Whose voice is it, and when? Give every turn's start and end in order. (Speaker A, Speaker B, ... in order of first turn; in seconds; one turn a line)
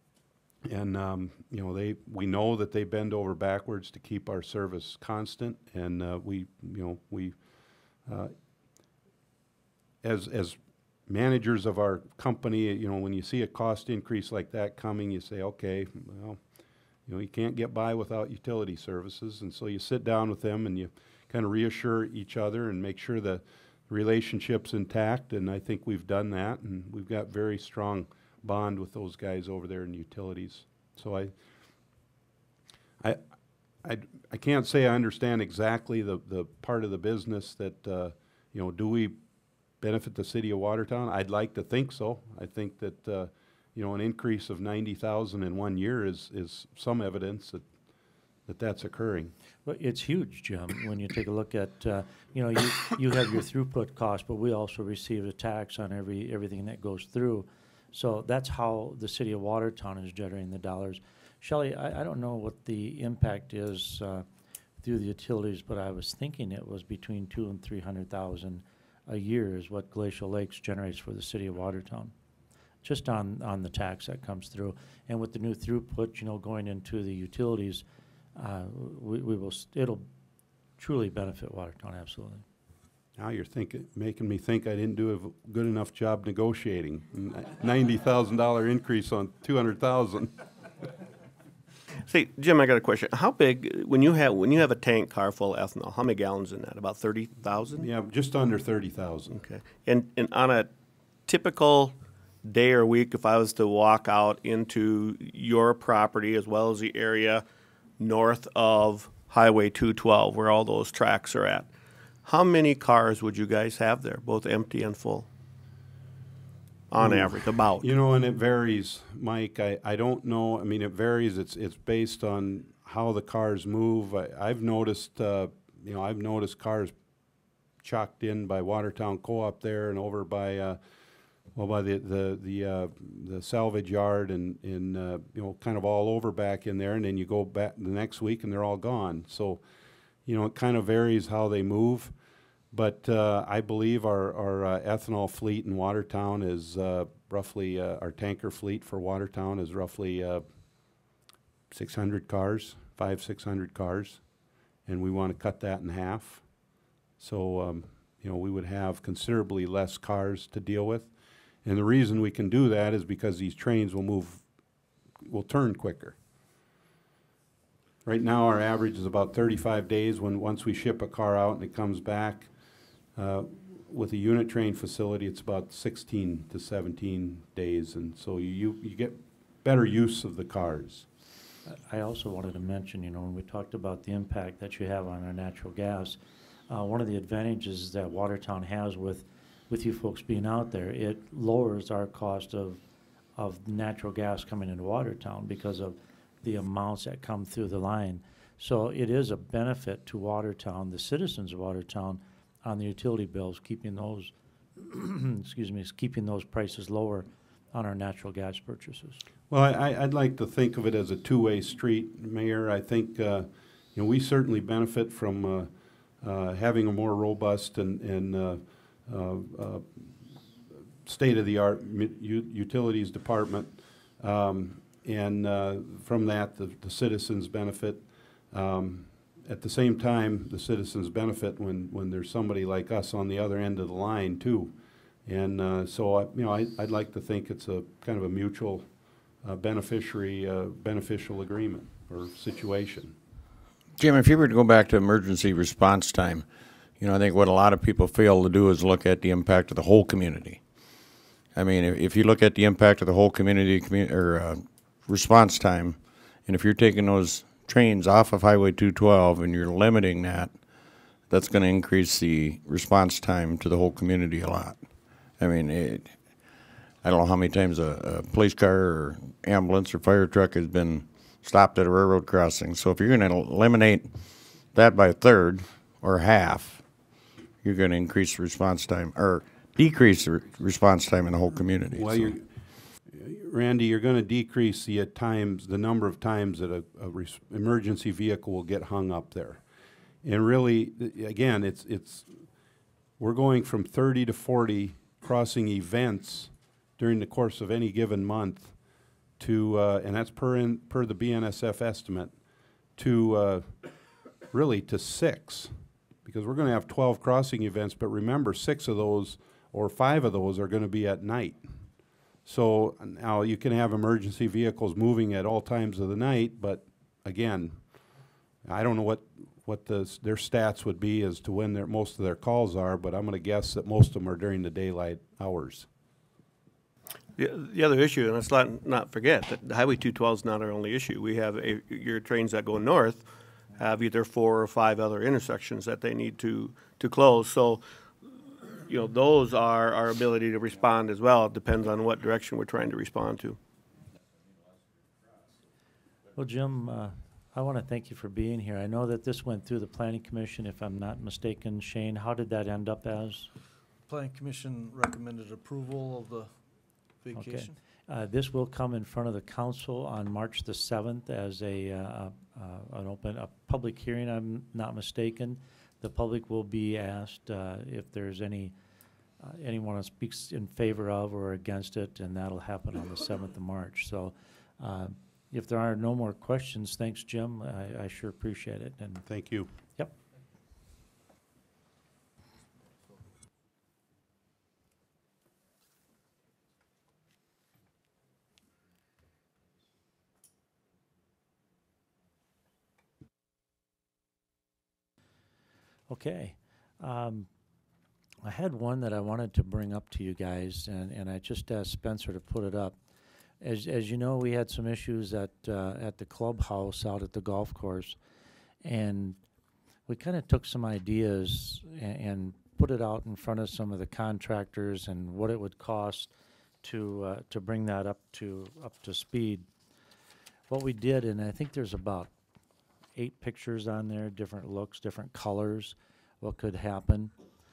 Speaker A: 0.7-7.4
Speaker A: 8.1-8.3
Speaker A: 10.0-16.4
Speaker A: 17.1-31.3
Speaker A: 33.8-39.2
Speaker A: 39.8-47.6
Speaker A: 48.5-49.3
Speaker B: 49.6-64.3
Speaker B: 64.8-72.1
Speaker B: 72.8-77.8
Speaker B: 78.4-80.1
Speaker B: 80.8-82.5
Speaker A: 83.2-90.4
Speaker C: 92.1-97.9
Speaker A: 97.8-99.4
Speaker C: 99.4-100.7
Speaker C: 101.3-107.4
Speaker C: 108.0-111.7
Speaker C: 112.2-115.3
Speaker C: 116.9-117.9
Speaker A: 117.0-127.0
Speaker A: 127.8-130.8
Speaker A: 131.6-139.6
Speaker A: 140.3-142.2
Speaker A: 142.7-150.4
Speaker A: 151.7-154.2
Speaker A: 154.9-156.4
Speaker A: 157.2-161.1
Speaker A: 161.7-164.4
Speaker A: 165.2-166.2
Speaker A: 168.1-172.5
Speaker A: 173.2-181.1
Speaker B: 181.7-192.8
Speaker B: 193.4-209.2
Speaker A: 209.5-220.1
Speaker A: 221.1-234.8
Speaker A: 235.3-238.9
Speaker A: 239.4-243.2
Speaker D: 244.0-246.5
Speaker D: 247.0-250.6
Speaker D: 251.6-260.6
Speaker D: 261.3-264.8
Speaker D: 265.4-266.2
Speaker D: 267.0-274.2
Speaker D: 274.7-276.8
Speaker D: 277.6-282.4
Speaker A: 281.9-282.4
Speaker A: 283.1-289.6
Speaker A: 290.2-292.5
Speaker A: 293.2-298.7
Speaker A: 299.4-302.4
Speaker A: 303.0-303.8
Speaker A: 304.5-305.7
Speaker A: 306.2-311.8
Speaker A: 312.5-317.8
Speaker A: 318.6-325.9
Speaker C: 327.4-337.8
Speaker C: 338.8-343.6
Speaker B: 346.4-353.5
Speaker E: 354.1-356.6
Speaker E: 357.2-357.8
Speaker B: 357.3-368.7
Speaker B: 369.4-379.3
Speaker A: 379.3-379.7
Speaker B: 396.1-397.5
Speaker B: 398.4-403.0
Speaker B: 403.6-408.2
Speaker B: 408.8-409.4
Speaker B: 410.1-416.3
Speaker B: 416.8-419.7
Speaker B: 420.7-422.3
Speaker B: 423.2-427.3